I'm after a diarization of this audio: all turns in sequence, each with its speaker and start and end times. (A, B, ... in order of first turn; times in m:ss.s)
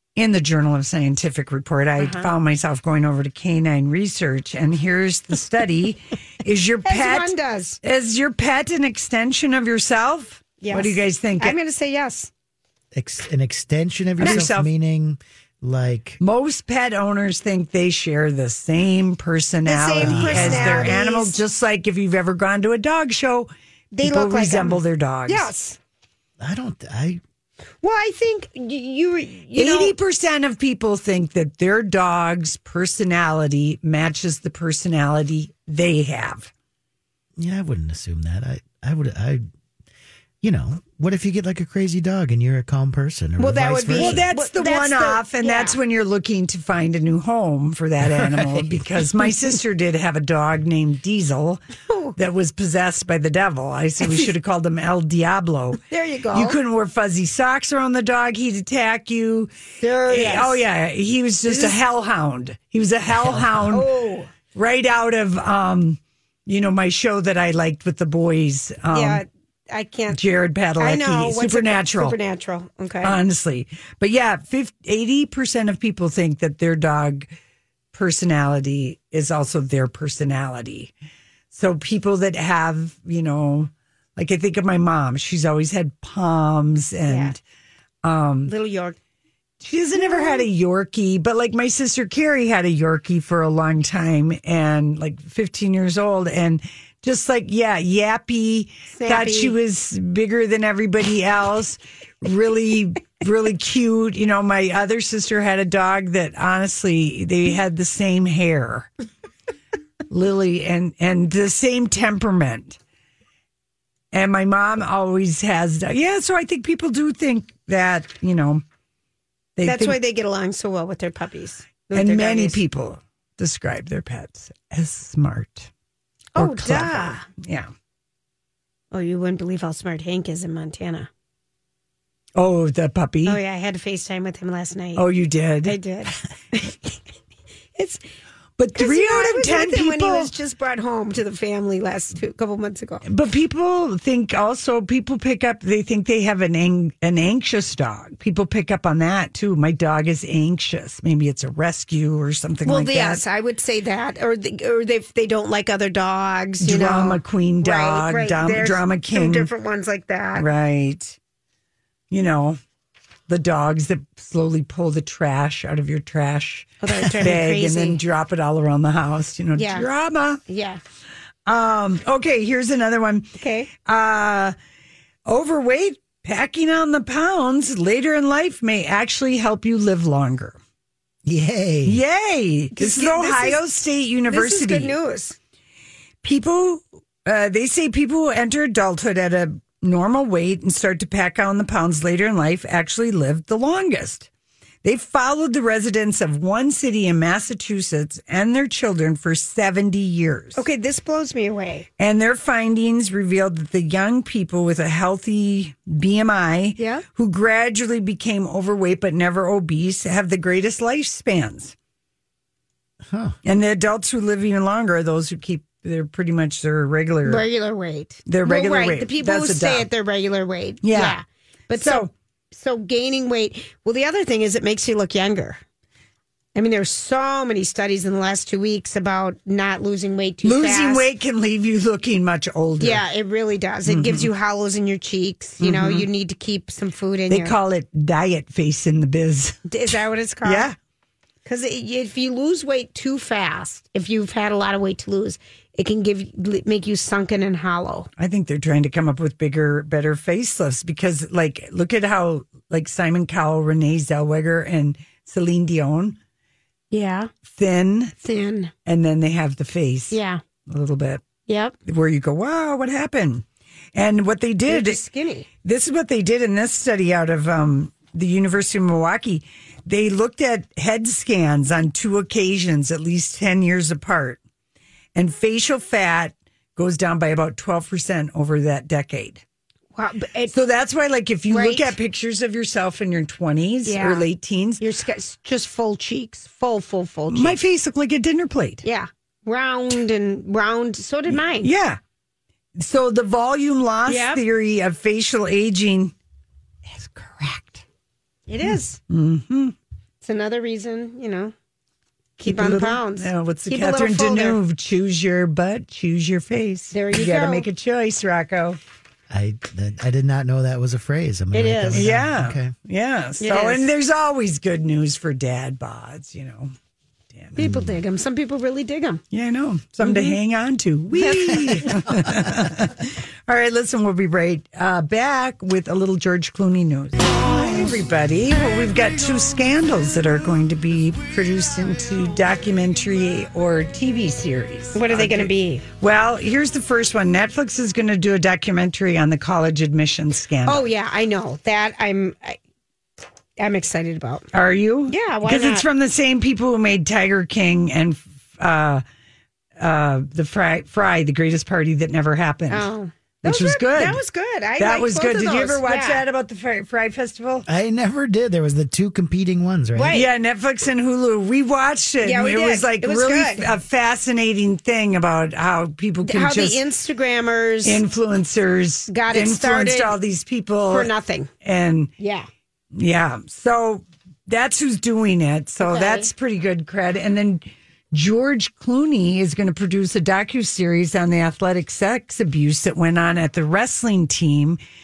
0:00.2-0:11.6 A
0:02.0-0:02.3 B
0:06.8-0:07.8 B
0:10.6-0:12.3 B
0:12.9-0:16.2 C
0:14.2-0:14.7 A
0:14.2-0:14.5 B
0:16.2-0:23.5 A
0:19.6-0:21.4 B
0:20.0-0:20.9 C
0:23.9-0:25.8 B
0:24.0-0:25.5 A
0:26.4-0:27.2 C
0:27.8-0:29.9 B
0:29.5-0:36.5 A
0:37.4-0:39.4 C
0:40.4-0:44.2 C
0:43.4-0:45.8 B
0:43.9-0:51.6 A
0:51.9-0:52.2 B
0:52.2-0:55.8 A
0:55.9-0:56.6 B
0:56.3-1:03.9 A
0:59.8-1:00.6 B
1:01.5-1:01.8 B
1:03.3-1:04.3 B
1:04.5-1:09.2 A
1:08.9-1:10.2 B
1:10.1-1:12.2 A
1:10.8-1:13.2 B
1:13.0-1:17.3 A
1:17.9-1:20.9 A
1:21.5-1:27.4 A
1:27.0-1:27.4 B
1:28.0-1:28.5 A
1:28.4-1:29.0 B
1:29.6-1:48.9 A
1:30.0-1:30.5 B
1:38.9-1:39.6 B
1:50.1-1:52.8 A
1:54.1-1:58.6 A
1:59.6-2:00.0 A
1:59.6-2:02.6 B
2:01.9-2:05.7 A
2:06.4-2:07.3 B
2:06.4-2:07.7 A
2:08.9-2:11.1 B
2:12.4-2:13.4 A
2:13.2-2:15.1 B
2:14.9-2:15.8 A
2:15.6-2:16.9 B
2:17.8-2:18.0 B
2:18.6-2:20.3 A
2:18.8-2:23.0 B
2:23.0-2:33.2 A
2:32.6-2:40.5 B
2:36.6-2:39.5 A
2:40.3-2:41.2 A
2:42.1-2:42.6 A
2:43.3-2:50.4 A
2:46.8-2:48.0 B
2:49.5-2:49.9 B
2:50.5-2:50.8 B
2:51.5-2:54.5 A
2:53.4-2:53.7 B
2:55.2-3:00.6 A
3:01.2-3:02.0 C
3:01.8-3:04.9 A
3:02.7-3:03.7 B
3:04.2-3:05.4 B
3:06.2-3:14.3 A
3:14.8-3:20.6 A
3:20.6-3:21.9 B
3:22.0-3:31.7 A
3:26.8-3:27.0 B
3:33.1-3:33.4 C
3:33.4-3:37.4 A
3:37.2-3:45.6 B
3:38.2-3:39.9 A
3:40.8-3:41.2 A
3:41.7-3:42.1 A
3:46.5-3:51.1 B
3:50.4-3:53.0 A
3:52.8-3:57.6 B
3:53.8-3:54.3 A
3:55.6-3:56.0 A
3:57.3-3:59.6 A
3:59.7-4:00.7 B
4:00.4-4:00.7 A
4:01.4-4:08.1 B
4:08.2-4:16.2 A
4:16.9-4:17.3 B
4:17.4-4:18.1 A
4:18.2-4:18.7 B
4:18.8-4:20.1 A
4:20.1-4:20.4 B
4:20.7-4:21.2 A
4:21.5-4:21.8 B
4:21.8-4:25.0 A
4:24.7-4:25.5 B
4:25.6-4:34.4 A
4:35.1-4:39.4 A
4:39.9-4:40.5 B
4:40.5-4:44.8 A
4:41.5-4:41.9 B
4:43.8-4:44.3 B
4:44.8-4:47.6 B
4:47.3-4:48.8 A
4:48.8-4:51.7 B
4:51.3-4:52.0 A
4:52.8-4:56.1 A
4:54.1-4:54.4 B
4:56.9-4:57.8 A
4:58.5-4:59.0 B
4:58.6-4:59.7 A
5:00.2-5:01.5 B
5:02.4-5:08.8 A
5:02.4-5:04.6 B
5:06.9-5:07.7 B
5:09.3-5:12.7 C
5:11.5-5:12.1 B
5:11.9-5:16.7 A
5:13.4-5:13.9 B
5:17.3-5:17.6 A
5:17.6-5:19.2 B
5:17.6-5:17.9 C
5:19.3-5:40.9 A
5:20.0-5:20.4 B
5:21.2-5:22.0 B
5:34.9-5:35.8 B
5:40.6-5:42.6 B
5:43.6-5:44.5 B
5:44.5-5:49.0 A
5:45.1-5:45.9 B
5:49.8-5:52.9 A
5:52.7-5:56.2 B
5:53.4-5:54.2 A
5:54.8-5:57.6 A
5:57.7-6:00.2 C
5:59.9-6:00.3 B
6:00.1-6:06.8 A
6:02.2-6:03.7 B
6:06.2-6:08.0 B
6:07.8-6:11.1 A
6:09.1-6:10.2 B
6:10.9-6:11.5 B
6:11.6-6:12.1 A
6:12.2-6:12.5 B
6:12.9-6:24.8 A
6:15.8-6:16.3 B